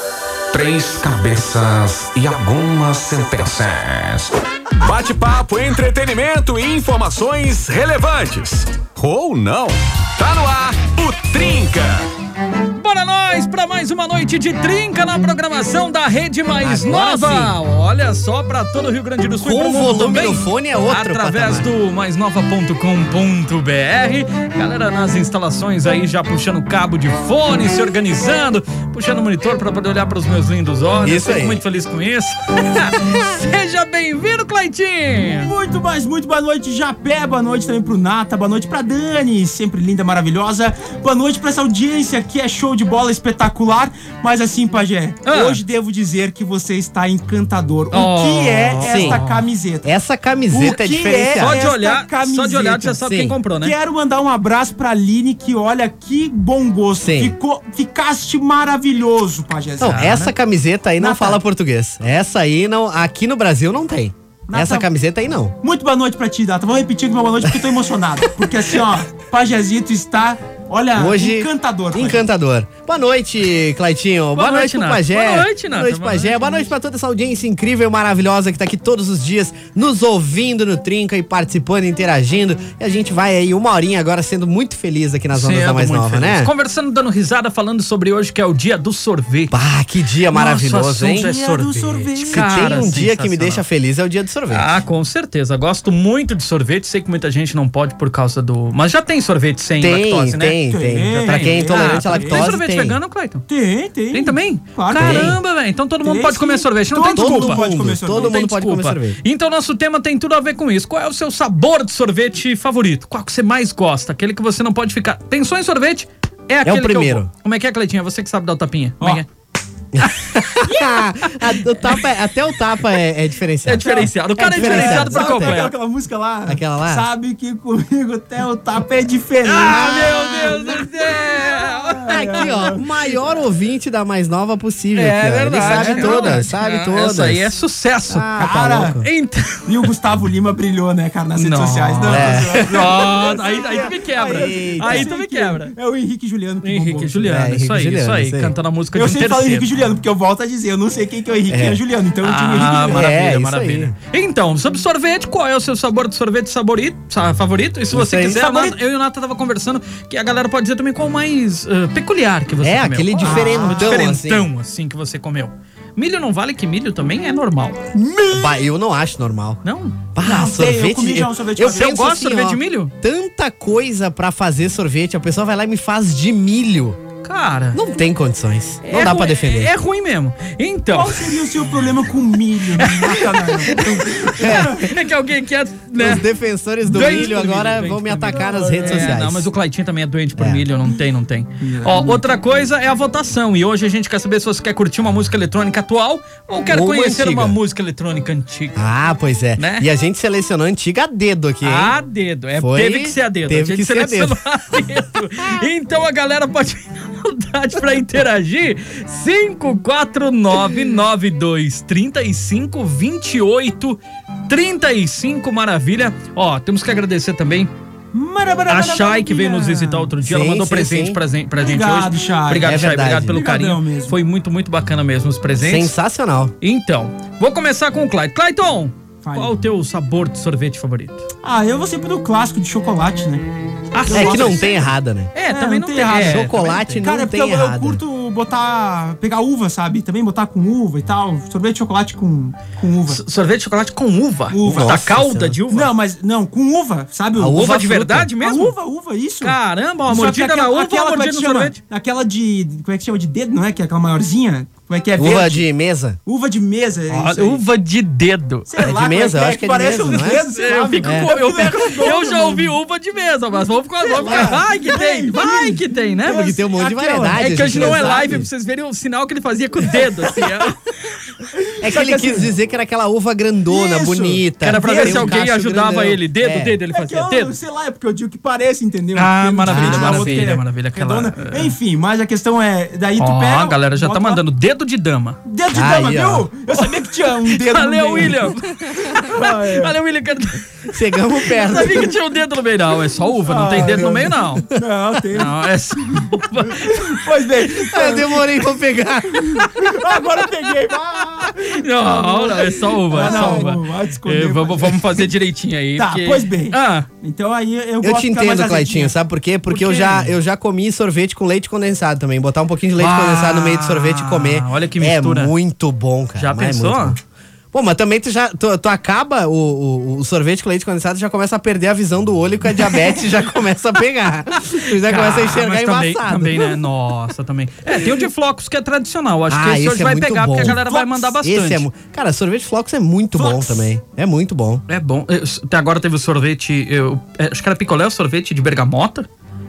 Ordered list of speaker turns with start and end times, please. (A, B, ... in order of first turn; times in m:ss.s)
0:00.5-0:04.4 A
0:04.8-0:12.0 B
0:12.7-0:35.5 C
0:16.6-0:17.5 D
0:19.4-0:21.7 D
0:31.0-0:31.6 D
0:35.2-0:49.9 E
0:45.2-0:45.6 C
0:47.9-0:49.4 C
0:48.8-0:49.2 D
0:49.8-0:51.6 D
0:50.5-0:53.0 E
0:50.6-0:53.7 C
0:53.0-0:53.4 D
0:53.6-1:00.0 E
0:57.0-0:57.3 D
0:59.8-1:05.5 D
0:59.8-1:00.3 C
1:01.0-1:01.4 E
1:04.5-1:04.9 E
1:05.6-1:12.2 E
1:11.0-1:26.5 D
1:14.4-1:16.6 C
1:25.3-1:29.5 C
1:29.5-1:31.3 D
1:30.3-1:33.6 C
1:31.1-1:32.8 E
1:32.3-1:34.8 D
1:34.5-1:40.6 C
1:39.8-1:43.0 D
1:40.7-1:42.5 E
1:41.2-1:43.4 C
1:43.5-1:45.4 E
1:44.1-1:59.3 C
1:44.9-1:45.4 D
1:46.0-1:48.4 E
1:47.1-1:49.2 D
1:56.6-1:57.3 D
1:59.9-2:05.6 D
2:01.6-2:02.0 C
2:03.6-2:05.7 C
2:03.8-2:12.8 E
2:06.5-2:07.0 D
2:09.5-2:12.5 C
2:09.6-2:10.6 D
2:12.1-2:17.5 D
2:14.9-2:18.3 C
2:15.6-2:16.4 E
2:18.1-2:19.1 D
2:18.4-2:19.0 E
2:19.0-2:19.9 C
2:19.6-2:27.4 E
2:21.4-2:25.7 C
2:22.0-2:23.0 D
2:24.2-2:25.1 D
2:26.6-2:29.7 C
2:27.3-2:28.5 D
2:28.9-2:33.1 E
2:31.5-2:31.8 D
2:32.2-2:47.8 C
2:32.8-2:33.9 D
2:37.9-2:38.7 D
2:38.3-2:38.7 E
2:42.6-2:44.5 D
2:43.2-2:44.0 E
2:47.9-2:48.6 E
2:48.3-2:49.6 D
2:49.6-2:50.0 C
2:50.1-2:57.0 D
2:50.2-2:52.1 E
2:51.7-2:52.9 C
2:57.2-2:57.8 C
2:57.7-2:59.7 D
2:58.8-3:01.4 C
3:00.9-3:04.9 E
3:02.8-3:06.2 C
3:04.4-3:04.8 D
3:06.0-3:09.5 D
3:06.8-3:18.8 C
3:07.0-3:07.3 E
3:08.4-3:09.1 E
3:10.4-3:10.6 D
3:11.6-3:12.2 E
3:16.7-3:17.6 D
3:18.8-3:21.9 D
3:19.6-3:19.9 C
3:21.6-3:37.7 C
3:22.6-3:24.4 D
3:38.1-3:40.1 E
3:38.7-3:45.9 C
3:40.2-3:41.2 D
3:41.6-3:44.2 E
3:42.6-3:43.3 D
3:45.6-3:46.5 D
3:46.6-3:51.2 C
3:49.2-3:49.5 E
3:51.4-3:53.5 E
3:53.9-3:54.7 C
3:54.0-3:54.9 E
3:54.1-3:55.3 D
3:55.3-3:57.0 C
3:55.5-4:03.2 E
3:56.1-3:58.0 D
4:03.1-4:05.9 C
4:04.5-4:05.0 E
4:04.6-4:05.6 D
4:05.7-4:07.8 E
4:07.4-4:08.3 D
4:07.5-4:08.7 C
4:08.4-4:15.6 E
4:09.4-4:11.8 C
4:15.2-4:16.2 D
4:16.2-4:17.6 E
4:17.1-4:18.7 C
4:18.7-4:22.8 E
4:18.8-4:20.4 D
4:20.1-4:26.6 C
4:21.0-4:21.3 D
4:24.1-4:28.4 E
4:24.2-4:24.6 D
4:26.2-4:28.5 D
4:27.3-4:30.8 C
4:31.5-4:32.5 E
4:31.8-4:36.7 D
4:33.7-4:35.4 E
4:34.6-4:37.5 C
4:36.9-4:44.4 E
4:39.2-4:41.7 C
4:39.7-4:40.5 D
4:43.2-4:45.4 C
4:45.4-4:48.5 E
4:45.7-4:46.5 D
4:47.5-4:50.7 C
4:49.2-4:49.9 E
4:50.9-4:52.1 D
4:51.6-4:54.7 C
4:53.4-4:58.6 E
4:55.3-4:57.1 C
4:57.8-4:59.9 D
4:59.3-5:05.3 E
5:01.4-5:07.1 C
5:03.2-5:03.7 D
5:05.9-5:09.1 E
5:08.0-5:17.2 D
5:09.7-5:10.3 E
5:13.0-5:15.5 C
5:16.4-5:17.2 C
5:17.7-5:26.9 D
5:24.7-5:31.9 C
5:29.5-5:34.8 D
5:30.6-5:31.3 E
5:33.3-5:33.9 E
5:34.9-5:39.3 C